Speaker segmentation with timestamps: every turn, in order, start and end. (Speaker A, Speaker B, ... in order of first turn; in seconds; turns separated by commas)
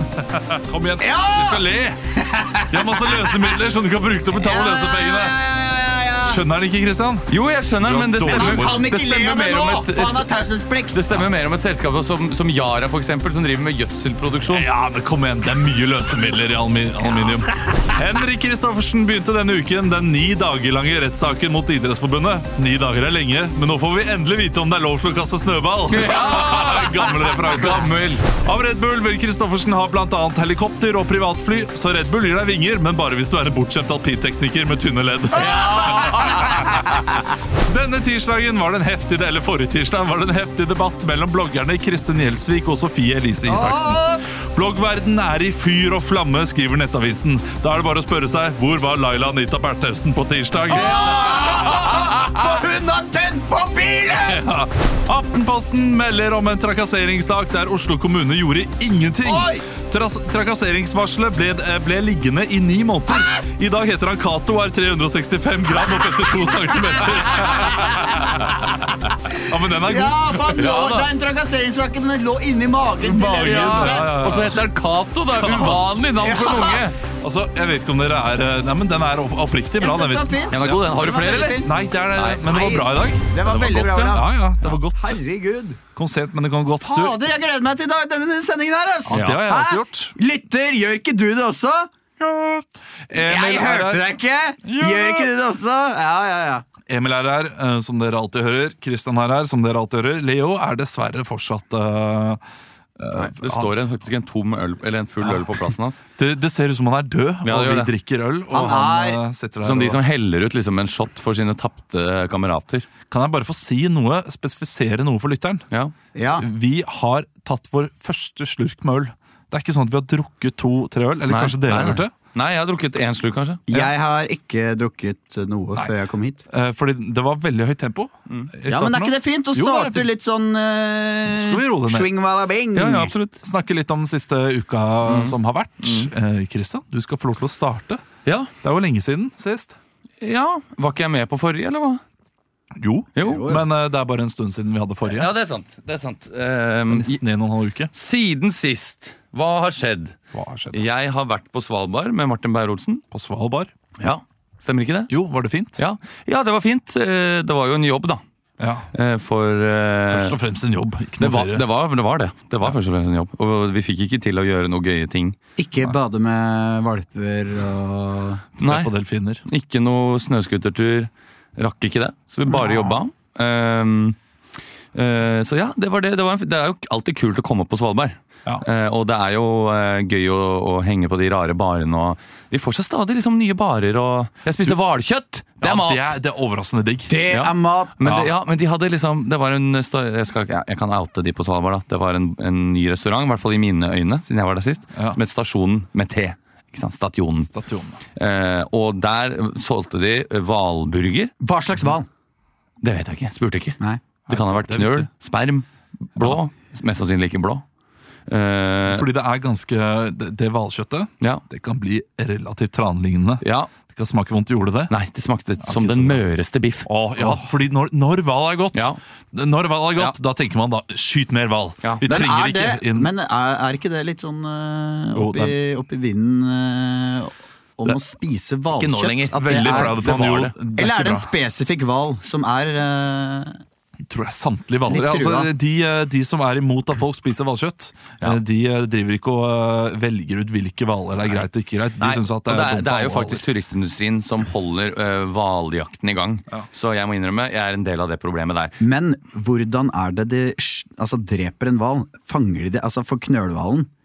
Speaker A: 0.1-5.4, Speaker B: 1.0-3.6, Speaker B: 4.3-6.4, Speaker A: 6.2-7.3, Speaker C: 7.3-10.3, Speaker A: 7.8-8.9, Speaker B: 8.3-11.0, Speaker C: 10.9-14.7, Speaker A: 14.5-51.7, Speaker C: 25.9-28.3, Speaker B: 35.5-36.5, Speaker B: 43.5-44.2, Speaker B: 50.7-54.4, Speaker A: 54.2-68.3, Speaker B: 59.2-59.6, Speaker B: 66.7-68.2, Speaker A: 69.3-70.6, Speaker B: 69.7-74.2, Speaker C: 70.5-71.1, Speaker A: 73.0-74.7, Speaker C: 73.3-77.0, Speaker A: 75.3-75.9, Speaker B: 76.2-76.8, Speaker A: 77.2-83.3, Speaker B: 79.8-81.8, Speaker C: 80.5-81.6, Speaker C: 82.1-82.6, Speaker B: 82.5-85.8, Speaker C: 83.4-84.8, Speaker A: 84.1-85.2, Speaker A: 86.0-87.2, Speaker B: 86.8-91.9, Speaker A: 89.1-90.1, Speaker C: 89.1-89.4, Speaker A: 92.2-94.0, Speaker B: 93.2-96.7, Speaker A: 94.6-95.3, Speaker A: 96.9-102.4, Speaker A: 103.0-103.8, Speaker C: 103.1-106.0, Speaker A: 106.2-110.0, Speaker C: 107.4-107.9, Speaker B: 108.5-109.2, Speaker C: 109.6-112.9, Speaker A: 113.1-115.7, Speaker B: 116.2-116.5, Speaker A: 116.4-122.1, Speaker C: 121.3-123.7, Speaker B: 123.7-126.4, Speaker A: 126.5-130.1, Speaker B: 128.7-133.2, Speaker A: 131.3-132.1, Speaker C: 132.8-133.4, Speaker A: 133.4-138.1, Speaker C: 135.1-136.1, Speaker C: 138.3-138.5, Speaker A: 138.6-139.8, Speaker C: 140.2-142.0, Speaker A: 142.8-145.3, Speaker C: 143.2-143.6, Speaker B: 143.2-143.6, Speaker C: 145.1-147.2, Speaker A: 146.9-147.9, Speaker C: 147.9-150.2, Speaker A: 150.3-150.8, Speaker C: 150.7-153.0, Speaker A: 153.1-153.7, Speaker C: 154.0-155.1, Speaker A: 155.1-155.8, Speaker C: 155.8-158.2, Speaker A: 158.6-158.9, Speaker C: 158.9-160.4, Speaker A: 160.1-161.6, Speaker C: 161.2-165.4, Speaker B: 165.6-168.4, Speaker C: 168.6-168.9, Speaker A: 168.6-169.4, Speaker C: 169.5-174.2, Speaker B: 172.5-172.8, Speaker C: 174.9-186.2, Speaker A: 185.6-187.2, Speaker B: 187.1-188.1, Speaker C: 187.2-197.5, Speaker A: 188.0-188.3, Speaker A: 194.9-195.2, Speaker A: 197.5-198.0, Speaker C: 198.2-201.3, Speaker B: 201.4-202.1, Speaker C: 202.8-207.6, Speaker A: 204.3-205.1, Speaker C: 208.3-209.1, Speaker A: 208.9-214.9, Speaker C: 213.4-213.7, Speaker C: 214.9-216.9, Speaker A: 215.6-216.2, Speaker A: 216.9-223.1, Speaker C: 218.7-219.0, Speaker B: 222.1-230.1, Speaker A: 225.1-225.6, Speaker C: 228.7-230.6, Speaker A: 229.4-231.3, Speaker B: 230.7-233.6, Speaker A: 234.1-243.4, Speaker B: 234.9-235.5, Speaker C: 242.0-248.8, Speaker B: 248.8-253.9